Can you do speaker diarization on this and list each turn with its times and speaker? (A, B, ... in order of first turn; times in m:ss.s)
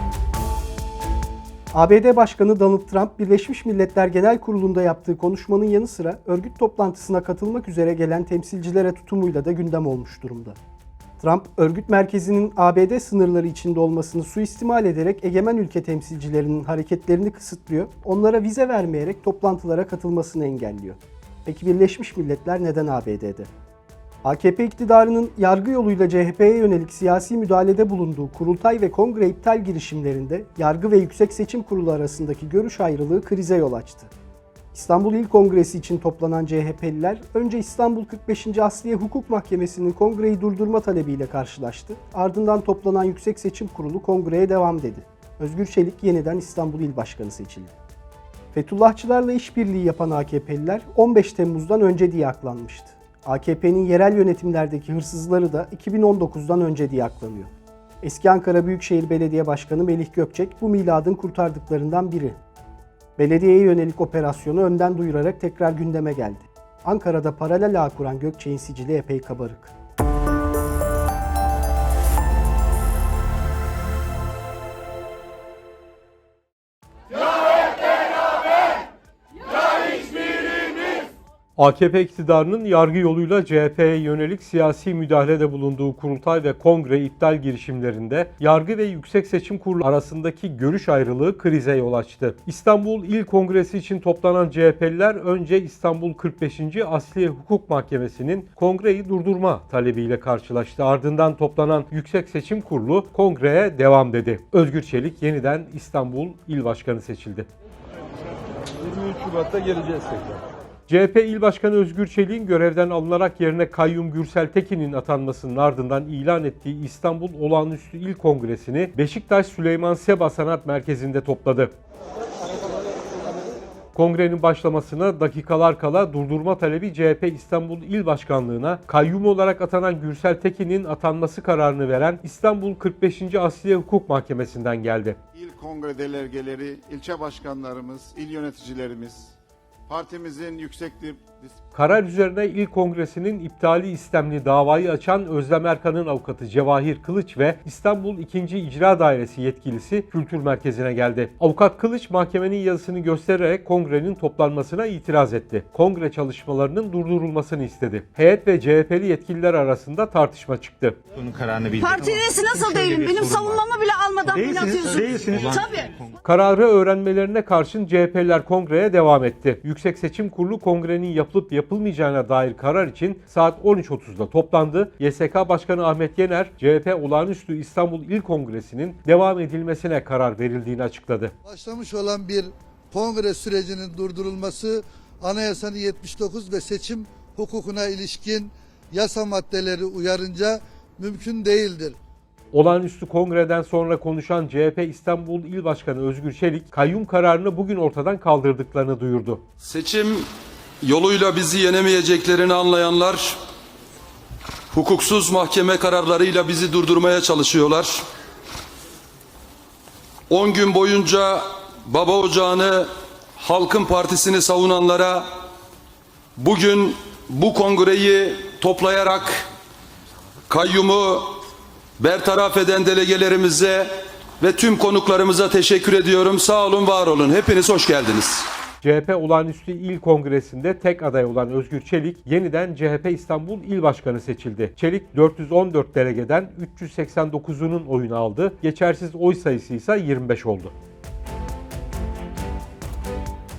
0:01.7-0:10.6 A
0:11.2-0:23.5 A
0:24.2-0:34.1 A
0:34.7-0:47.7 A
0:48.5-0:57.5 A
0:58.0-1:02.4 A
1:03.2-1:09.7 A
1:21.6-1:47.5 B
1:50.9-2:01.7 B
2:03.9-2:15.2 B
2:15.3-2:19.3 C
2:19.9-2:21.5 C
2:21.7-2:41.0 B
2:41.2-2:43.6 D
2:41.8-2:45.9 E
2:44.2-2:46.1 D
2:46.2-3:01.3 B
3:01.4-3:12.0 F
3:12.5-3:19.4 B
3:19.6-3:20.3 G
3:20.8-3:23.4 G
3:24.7-3:28.0 G
3:30.3-3:35.2 G
3:36.4-3:39.4 G
3:40.5-3:41.3 G
3:42.0-3:43.9 G
3:44.4-3:48.5 G
3:48.8-4:00.7 B